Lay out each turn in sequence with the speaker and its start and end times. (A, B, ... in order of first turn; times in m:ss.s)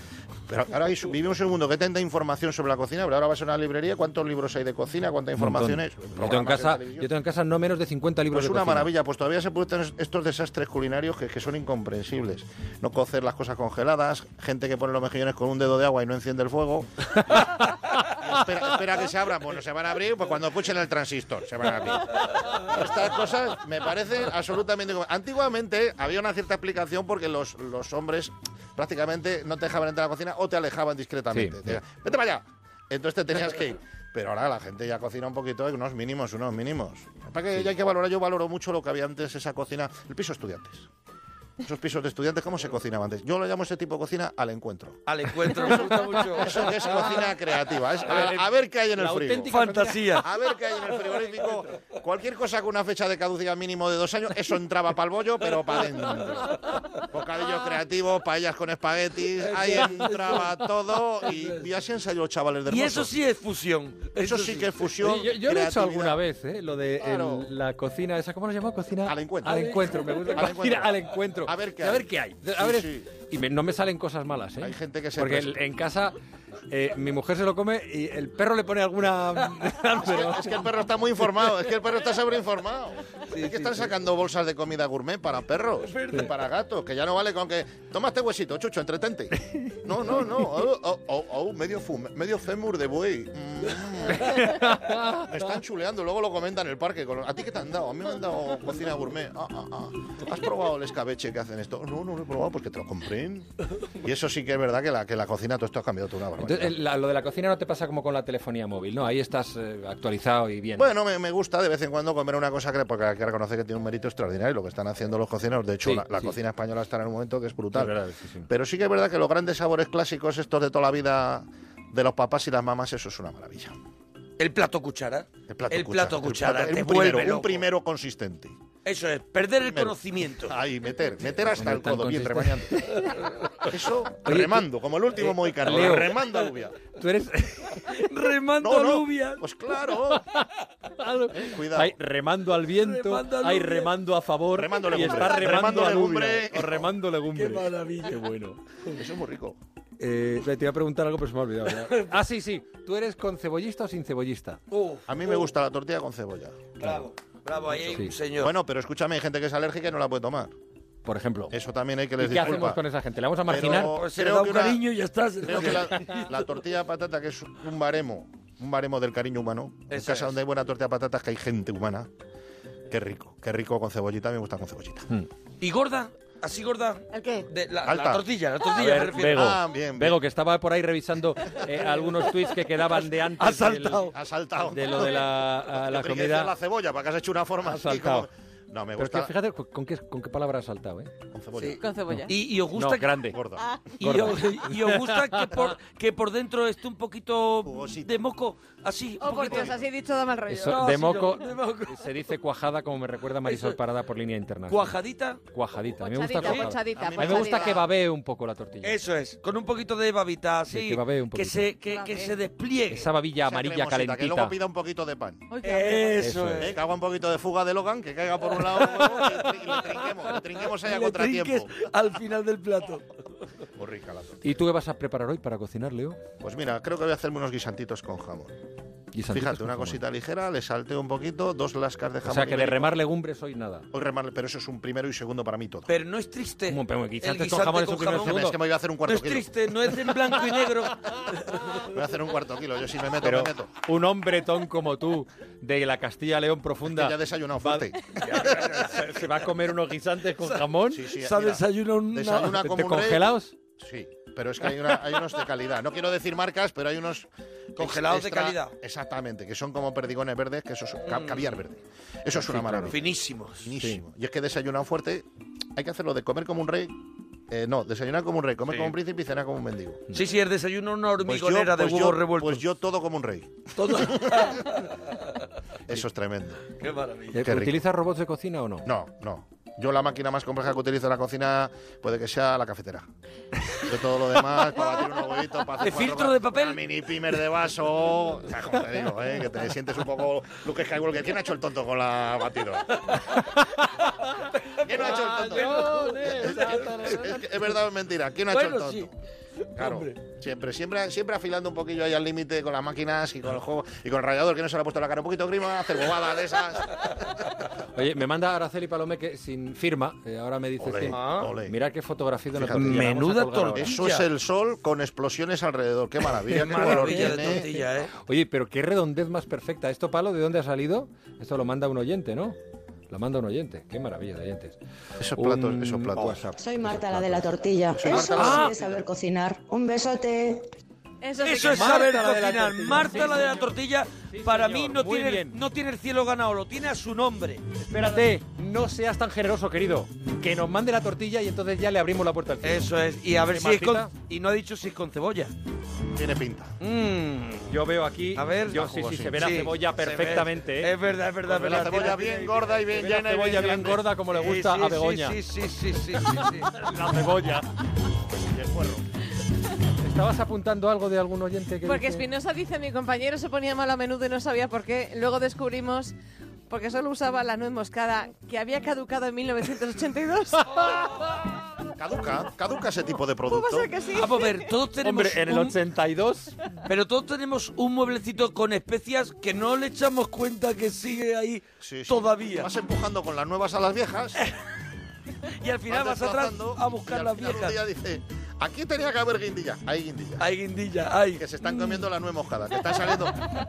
0:00.5-0:07.1 A
0:05.4-0:08.9 B
0:08.3-0:40.9 A
0:31.3-0:31.8 B
0:41.6-0:45.0 A
0:45.1-0:47.0 C
0:46.4-0:49.5 A
0:48.1-0:50.0 B
0:49.5-0:50.3 C
0:50.2-1:03.1 A
0:59.4-1:00.6 C
1:01.3-1:01.6 C
1:02.7-1:04.9 C
1:04.2-1:06.2 A
1:05.0-1:16.2 B
1:07.0-1:07.5 A
1:09.0-1:09.6 A
1:09.5-1:10.4 C
1:10.2-1:13.1 A
1:14.6-1:15.6 A
1:16.7-1:20.6 B
1:20.0-1:46.8 A
1:23.3-1:23.9 C
1:25.8-1:26.3 C
1:34.4-1:35.2 B
1:46.4-1:50.9 B
1:50.8-2:03.8 A
1:55.8-1:56.2 B
1:57.7-1:58.5 B
2:04.4-2:07.7 C
2:05.5-2:08.6 A
2:08.8-2:10.6 C
2:09.7-2:12.8 A
2:11.4-2:13.7 B
2:13.6-2:16.8 A
2:14.2-2:14.6 B
2:15.2-2:16.2 B
2:16.9-2:18.1 B
2:17.9-2:19.4 C
2:18.6-2:20.2 A
2:20.1-2:28.6 B
2:21.3-2:22.0 A
2:22.7-2:23.9 C
2:24.5-2:26.9 A
2:25.2-2:25.6 D
2:27.3-2:28.2 C
2:28.9-2:29.6 A
2:30.0-2:34.6 B
2:31.8-2:32.1 C
2:34.7-2:35.5 C
2:35.1-2:36.9 A
2:36.8-2:38.5 C
2:37.9-2:38.1 B
2:38.4-2:40.5 A
2:41.0-2:41.6 B
2:41.5-2:42.8 A
2:42.2-2:44.0 B
2:43.5-2:44.8 A
2:43.5-2:46.4 C
2:45.4-2:52.1 A
2:45.6-2:46.2 B
2:49.9-2:50.4 C
2:52.9-2:55.1 A
2:55.6-2:59.5 C
2:57.1-2:57.5 D
2:57.8-2:58.2 A
2:58.7-3:04.1 B
2:59.0-3:00.2 A
3:03.4-3:04.2 C
3:04.1-3:09.3 A
3:04.6-3:06.5 B
3:07.6-3:08.3 B
3:09.0-3:11.1 B
3:11.3-3:11.8 A
3:11.6-3:13.4 C
3:11.8-3:12.4 D
3:12.1-3:13.4 B
3:13.3-3:13.8 A
3:13.7-3:14.0 D
3:14.0-3:19.8 C
3:14.0-3:15.7 B
3:17.6-3:18.2 A
3:19.2-3:21.3 D
3:19.5-3:19.8 A
3:20.5-3:24.9 B
3:20.6-3:22.1 C
3:23.4-3:23.8 C
3:24.7-3:25.4 C
3:25.5-3:29.0 B
3:26.0-3:27.8 D
3:26.4-3:27.9 A
3:28.8-3:33.1 C
3:30.7-3:31.7 B
3:31.9-3:32.4 D
3:32.9-3:34.6 B
3:33.4-3:35.4 A
3:35.5-3:36.3 D
3:35.6-3:36.8 C
3:36.2-3:36.7 B
3:36.6-3:41.7 A
3:38.8-3:39.4 C
3:40.6-3:43.4 C
3:43.8-3:44.5 A
3:44.4-3:46.2 B
3:46.4-3:48.6 A
3:49.1-3:50.0 B
3:49.3-3:53.0 A
3:52.2-3:53.9 B
3:53.9-3:56.0 A
3:55.9-3:58.5 C
3:56.7-3:58.6 B
3:58.2-3:59.5 A
3:59.1-4:01.8 C
4:01.8-4:03.7 A
4:03.2-4:11.1 B
4:06.8-4:09.0 A
4:10.4-4:12.6 C
4:10.9-4:23.0 A
4:12.5-4:13.5 B
4:17.8-4:18.8 C
4:21.0-4:21.6 C
4:22.4-4:23.0 B
4:22.9-4:23.7 C
4:23.6-4:27.0 A
4:27.5-4:30.1 A
4:28.7-4:28.9 C
4:30.1-4:32.6 C
4:31.2-4:34.3 A
4:33.8-4:35.5 C
4:35.9-4:36.7 A
4:36.8-4:37.4 C
4:37.3-4:38.9 B
4:37.4-4:37.8 A
4:38.8-4:43.1 A
4:43.8-4:53.1 A
4:45.8-4:46.8 C
4:53.0-4:53.7 C
4:54.2-4:57.0 C
4:54.8-4:59.1 A
4:55.0-4:57.5 B
4:58.5-4:59.1 C
4:59.7-5:00.2 C
4:59.8-5:07.4 A
5:07.9-5:14.0 B
5:10.8-5:11.8 A
5:11.1-5:11.5 C
5:12.6-5:13.1 A
5:12.7-5:14.3 C
5:13.8-5:17.7 A
5:16.5-5:18.1 C
5:16.5-5:22.6 B
5:23.1-5:24.8 B
5:25.2-5:26.5 A
5:25.4-5:28.8 B
5:26.6-5:30.7 E
5:27.9-5:28.9 A
5:31.2-5:32.2 D
5:31.4-5:37.6 C
5:31.6-5:35.6 B
5:37.8-5:44.1 B
5:42.6-5:45.5 C
5:46.1-5:46.7 A
5:46.8-5:47.8 C
5:47.7-5:50.9 B
5:48.3-5:52.4 C
5:48.8-5:49.7 A
5:51.5-5:54.0 A
5:51.6-5:55.4 B
5:54.3-5:56.8 C
5:56.3-5:57.7 B
5:58.5-5:59.0 A
6:00.0-6:02.3 B
6:01.8-6:06.2 D
6:06.7-6:10.9 D
6:12.0-6:13.9 A
6:13.5-6:14.7 D
6:14.1-6:15.8 C
6:15.0-6:16.6 B
6:16.9-6:22.7 C
6:21.8-6:24.4 A
6:25.4-6:27.8 C
6:25.9-6:30.5 A
6:30.4-6:31.4 C
6:31.4-6:33.5 A